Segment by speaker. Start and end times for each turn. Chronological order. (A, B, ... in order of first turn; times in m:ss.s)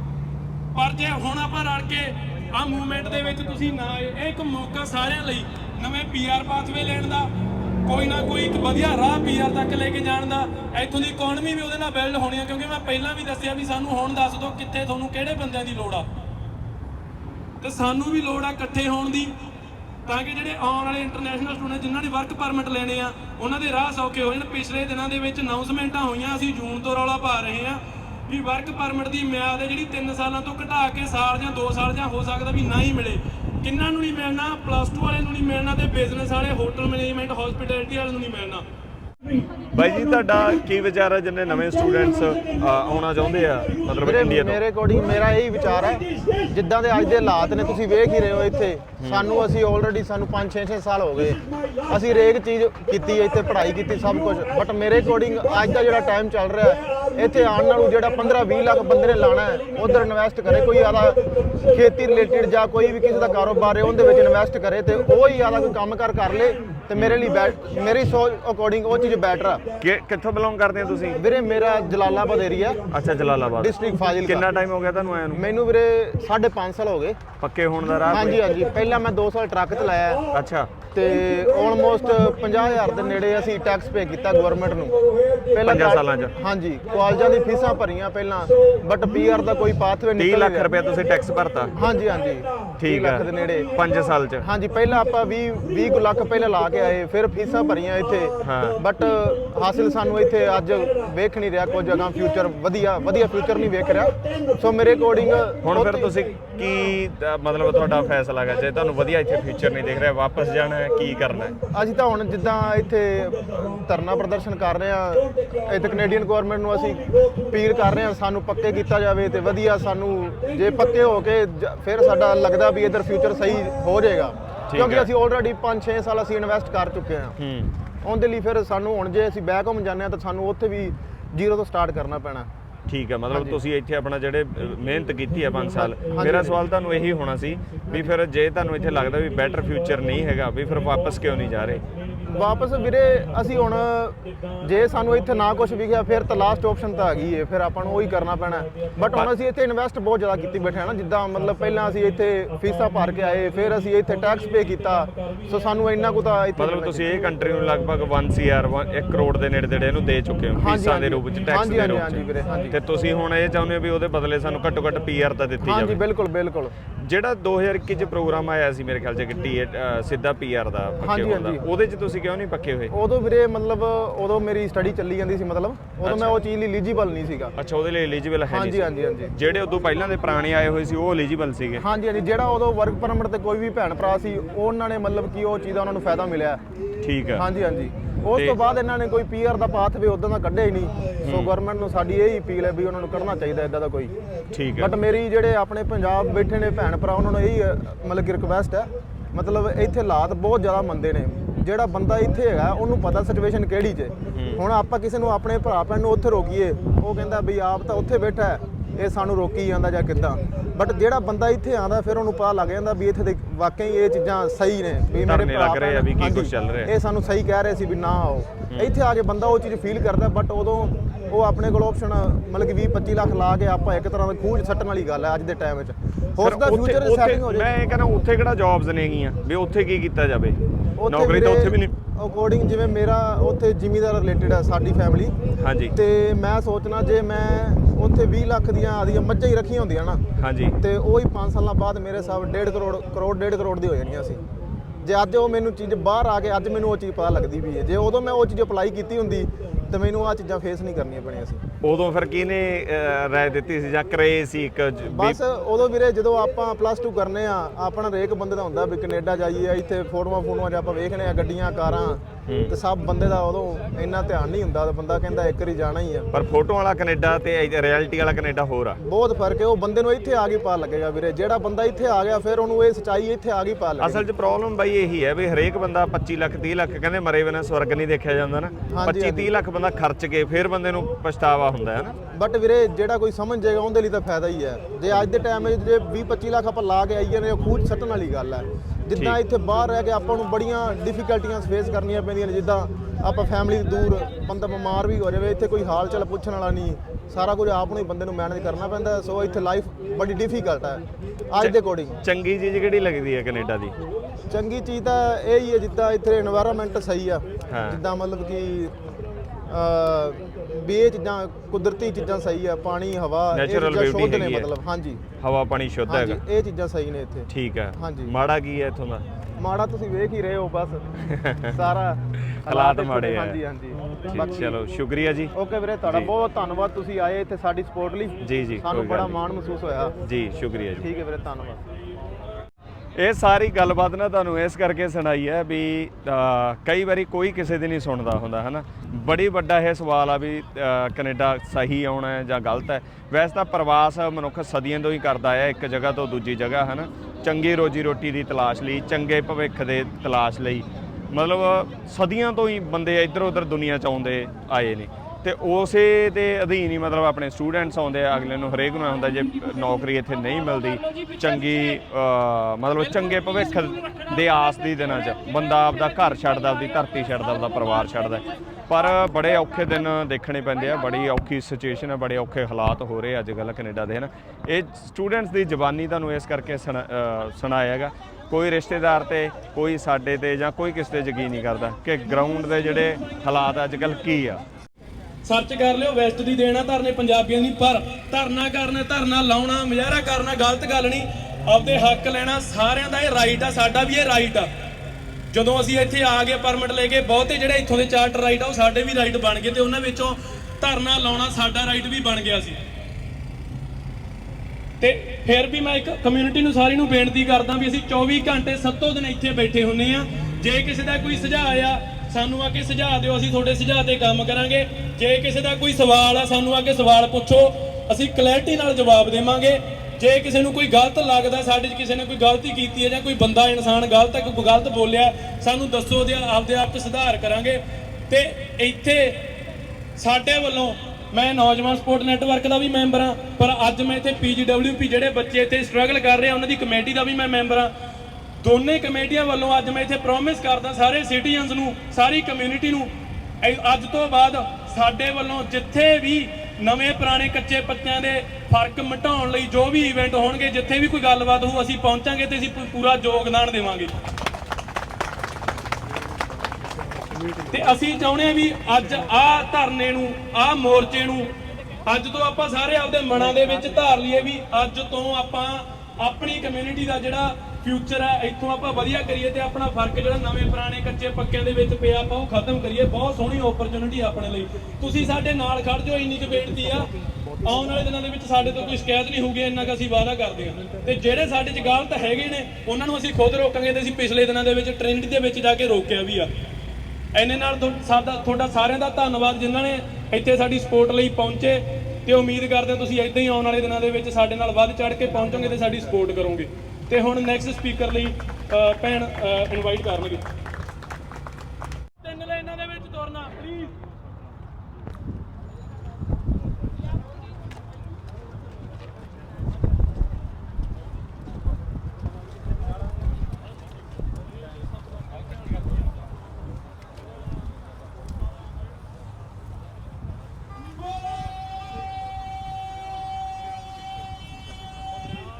0:00.7-0:07.3 A
0:07.8-0:16.1 A
0:17.6-0:19.3 A
0:20.0-0:38.6 A
0:39.7-0:44.6 B
0:44.0-1:09.6 C
0:49.0-0:49.3 B
1:07.0-1:07.2 B
1:09.8-1:11.2 B
1:11.2-1:12.8 C
1:12.9-1:15.4 B
1:13.6-1:14.5 C
1:15.3-1:17.2 C
1:17.4-1:18.4 B
1:18.1-1:20.2 C
1:20.3-1:20.7 B
1:20.9-1:25.0 C
1:25.5-1:30.7 C
1:25.6-1:26.4 B
1:30.2-1:31.7 B
1:31.8-1:33.7 C
1:32.8-1:34.4 B
1:34.4-1:46.1 C
1:38.4-1:38.8 B
1:45.6-1:51.6 B
1:51.7-2:07.3 C
2:04.7-2:05.1 B
2:07.4-2:07.7 B
2:08.0-2:12.5 C
2:12.9-2:21.8 B
2:13.3-2:13.6 C
2:16.1-2:16.6 C
2:22.3-2:37.3 C
2:36.6-2:46.0 B
2:40.5-2:42.8 C
2:45.6-2:46.7 C
2:47.0-2:52.9 B
2:51.0-2:51.6 C
2:52.9-2:57.5 C
2:56.0-2:56.4 B
2:57.6-3:01.8 B
2:58.5-2:59.3 C
3:01.8-3:06.6 C
3:07.0-3:07.4 B
3:07.3-3:14.1 C
3:11.2-3:11.5 B
3:14.5-3:14.9 B
3:14.8-3:47.7 C
3:24.3-3:24.6 B
3:35.2-3:36.9 B
3:46.4-3:51.9 B
3:51.0-3:55.3 C
3:55.6-3:56.0 B
3:55.9-4:00.2 C
4:00.4-4:00.8 B
4:00.8-4:04.4 C
4:05.0-4:11.6 C
4:11.8-4:15.4 B
4:15.1-4:26.3 C
4:22.5-4:22.7 B
4:26.3-4:29.0 B
4:29.0-4:34.2 C
4:34.0-4:42.2 B
4:38.9-4:39.5 C
4:42.3-5:02.2 C
4:49.1-4:49.4 B
5:01.6-5:04.0 B
5:04.5-5:09.0 C
5:07.7-5:08.0 B
5:09.7-5:15.2 C
5:13.5-5:14.7 B
5:15.4-5:16.4 B
5:16.1-5:18.3 C
5:17.5-5:19.2 B
5:19.6-5:21.0 C
5:21.3-5:21.8 B
5:21.7-5:24.7 C
5:22.4-5:23.6 B
5:24.3-5:25.5 B
5:25.5-5:30.1 C
5:26.0-5:26.3 B
5:28.4-5:29.4 B
5:30.2-5:31.1 B
5:31.0-5:31.8 C
5:33.2-6:24.6 B
6:00.9-6:02.0 A
6:02.9-6:08.4 A
6:25.4-6:34.7 A
6:35.5-6:42.8 A
6:45.0-7:09.4 A
7:10.2-7:17.9 A
7:18.6-7:23.1 A
7:23.6-7:34.1 A
7:37.7-7:41.5 A
7:42.1-7:57.1 A
7:57.6-8:06.5 A
8:07.3-8:20.4 A
8:22.2-8:23.9 A
8:41.0-8:41.5 A